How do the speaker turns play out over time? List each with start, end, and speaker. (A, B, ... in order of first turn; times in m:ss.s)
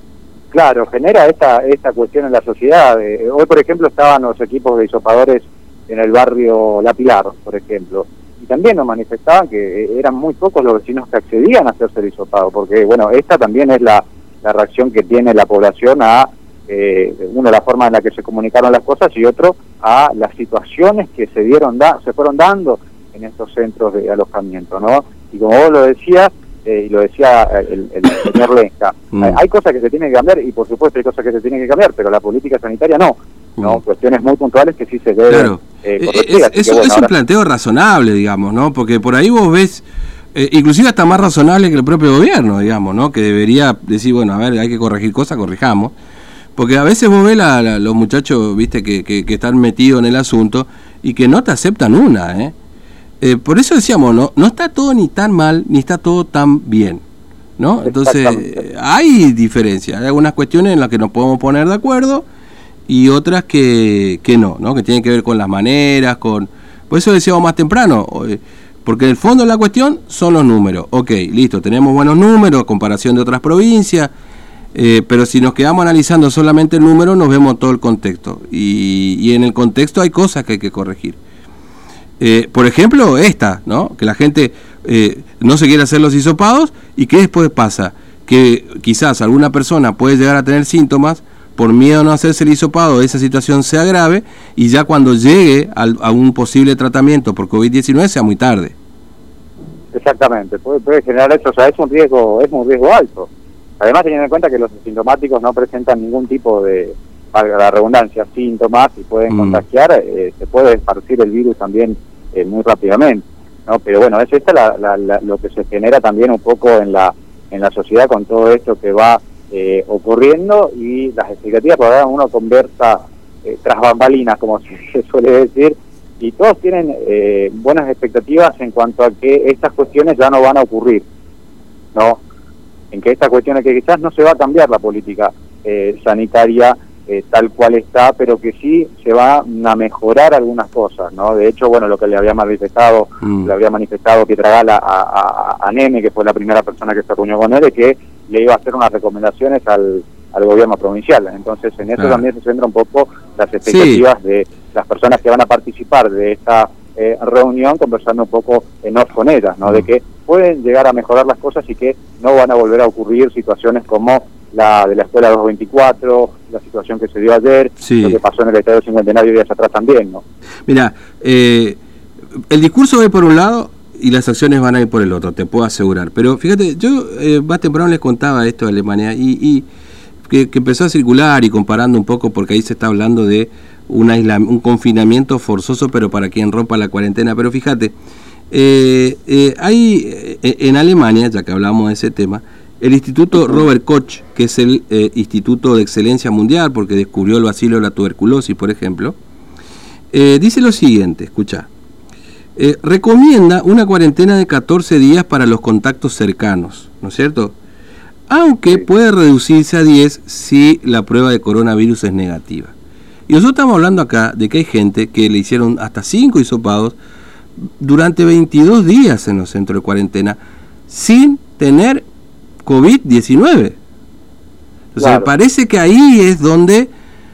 0:00.5-0:37.1 A
0:29.1-0:29.4 B
0:35.3-0:45.9 B
0:46.6-0:52.5 B
0:53.2-0:57.0 B
0:57.6-1:02.2 B
0:57.8-0:58.5 A
1:02.9-1:14.1 B
1:14.7-1:21.2 B
1:22.2-1:38.7 B
1:39.9-1:43.3 A
1:43.8-2:11.0 A
1:49.3-1:49.6 B
2:11.9-2:12.2 A
2:12.9-2:50.2 A
2:23.2-2:23.5 B
2:32.0-2:32.2 B
2:33.6-2:34.0 B
2:47.8-2:48.2 B
2:50.7-2:51.8 B
2:52.5-2:59.7 B
3:00.3-3:07.9 B
3:08.5-3:19.2 B
3:20.1-3:21.7 B
3:22.6-3:27.6 B
3:28.3-3:32.7 B
3:33.3-3:37.0 B
3:37.8-3:42.0 B
3:42.6-3:43.8 B
3:44.9-3:46.9 B
3:45.0-3:45.3 A